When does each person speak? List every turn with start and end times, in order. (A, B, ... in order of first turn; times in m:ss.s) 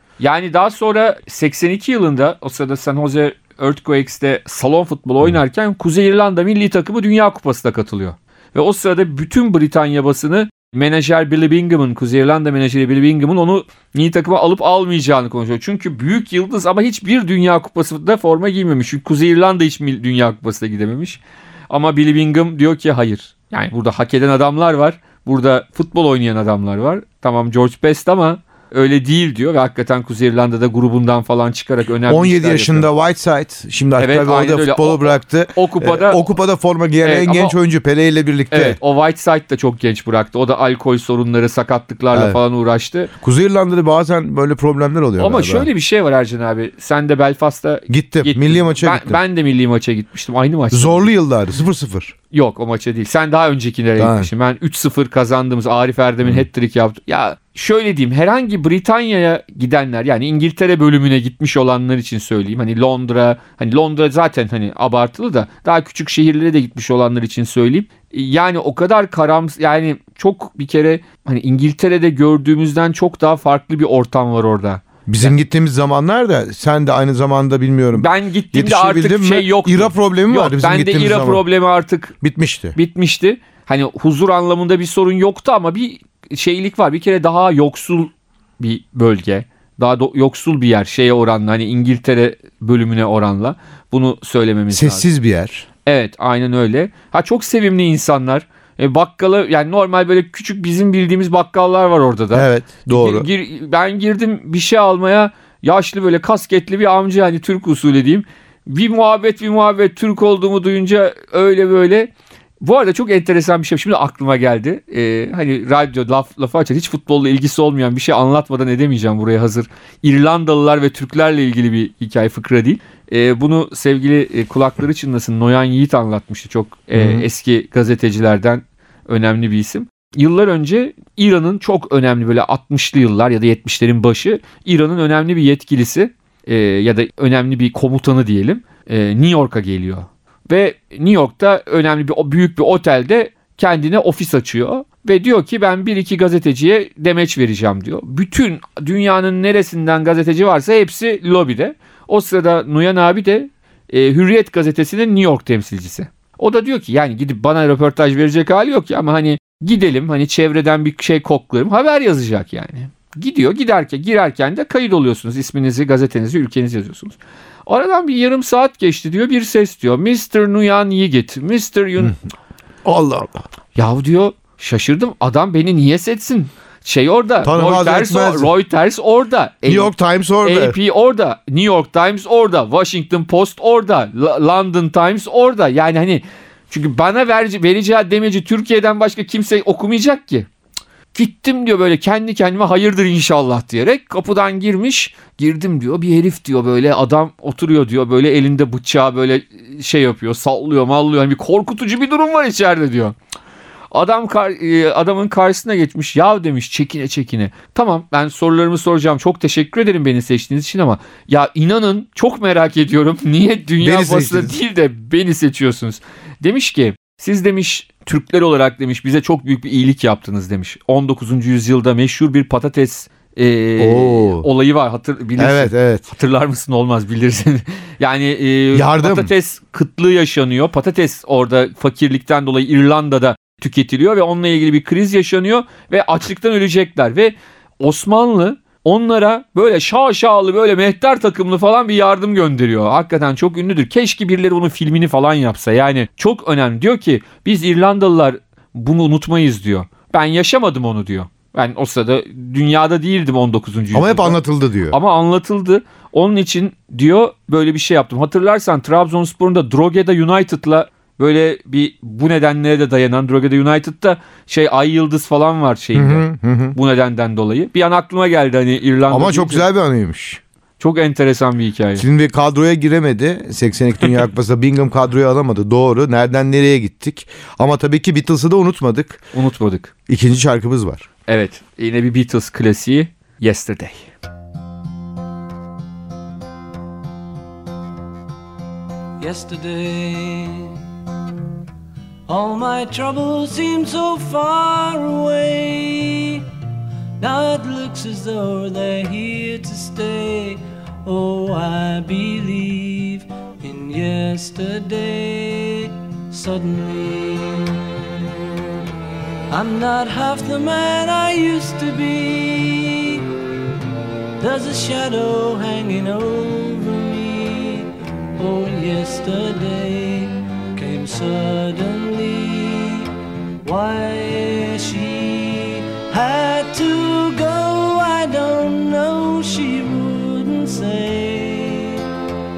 0:00.2-0:32.9 A
0:32.1-0:38.8 B
0:34.0-0:36.2 A
0:37.0-0:37.6 A
0:38.5-0:43.1 A
0:42.1-0:42.4 B
0:43.2-0:45.7 B
0:45.2-0:51.1 A
0:47.9-0:49.2 B
0:50.7-0:52.1 B
0:52.3-1:15.3 A
0:54.0-0:54.3 B
1:15.1-1:21.4 B
1:17.9-1:22.1 A
1:22.2-1:22.8 B
1:22.7-1:35.0 A
1:34.7-1:35.6 B
1:35.8-2:52.2 A
1:42.3-1:43.3 B
2:06.9-2:07.2 B
2:52.8-2:53.4 B
2:53.7-3:10.5 A
2:57.4-2:58.5 B
2:59.7-3:00.8 B
3:11.1-3:23.1 A
3:23.9-4:14.4 A
3:33.8-3:34.5 B
3:43.8-3:44.5 B
3:45.4-3:46.0 B
3:48.7-3:49.3 B
4:13.9-4:15.0 B
4:14.9-4:29.6 A
4:25.9-4:26.8 B
4:29.1-4:30.4 B
4:30.8-4:32.0 A
4:32.0-4:39.2 B
4:39.3-4:39.9 A
4:40.1-4:41.1 B
4:41.3-4:44.1 A
4:49.2-4:50.8 C
4:52.3-4:56.5 C
4:57.2-5:07.8 C
5:09.5-5:13.2 C
5:14.4-5:23.1 C
5:23.6-5:32.0 C